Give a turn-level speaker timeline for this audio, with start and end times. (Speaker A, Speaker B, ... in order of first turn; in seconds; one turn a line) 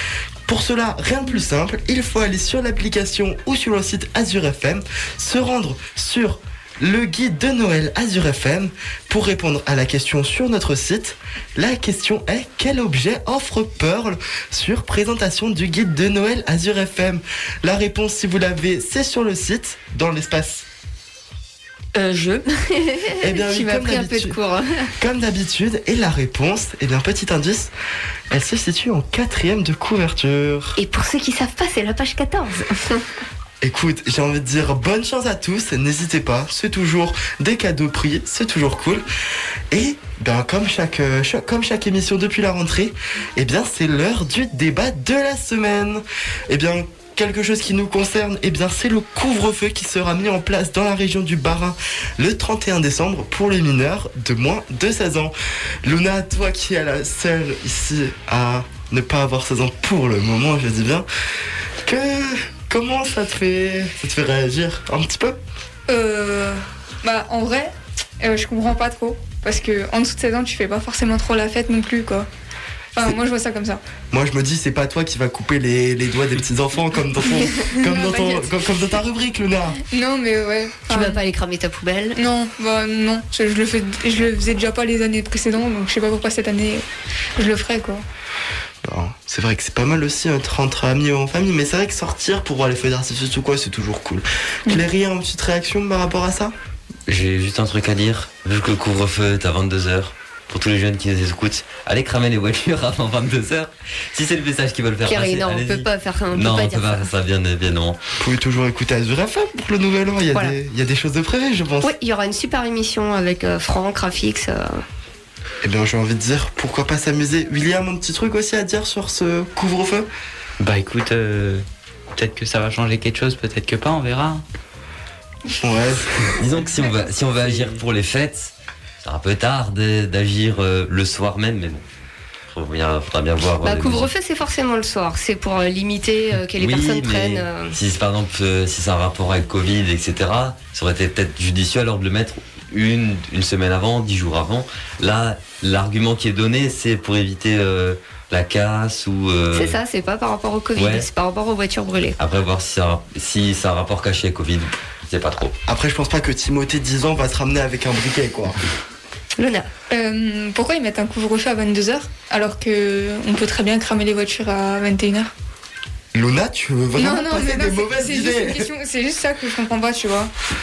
Speaker A: 0.5-20.7
Speaker B: 21.9-24.9
Speaker A: 23.2-24.4
Speaker A: 25.0-27.7
Speaker A: 28.3-30.8
Speaker B: 30.8-33.1
Speaker A: 33.6-39.0
Speaker A: 39.7-61.1
Speaker A: 61.9-65.4
Speaker C: 65.9-72.3
Speaker C: 73.0-73.8
Speaker A: 74.1-79.8
Speaker C: 77.2-78.6
Speaker C: 79.8-81.2
Speaker B: 80.9-82.2
Speaker C: 82.2-86.8
Speaker C: 87.4-88.0
Speaker A: 88.8-96.5
Speaker D: 97.1-108.0
Speaker B: 105.1-107.1
Speaker A: 108.2-111.9
Speaker B: 111.8-114.8
Speaker A: 115.6-120.1
Speaker E: 120.6-121.6
Speaker E: 122.1-124.4
Speaker A: 125.6-126.3
Speaker D: 126.4-128.5
Speaker E: 127.5-127.7
Speaker D: 129.0-131.8
Speaker D: 132.5-134.1
Speaker B: 133.6-137.7
Speaker D: 136.6-149.8
Speaker B: 149.6-152.2
Speaker D: 150.8-151.1
Speaker D: 152.2-155.6
Speaker A: 155.7-158.6
Speaker B: 159.4-159.7
Speaker C: 159.9-165.3
Speaker A: 166.1-168.7
Speaker C: 166.9-170.3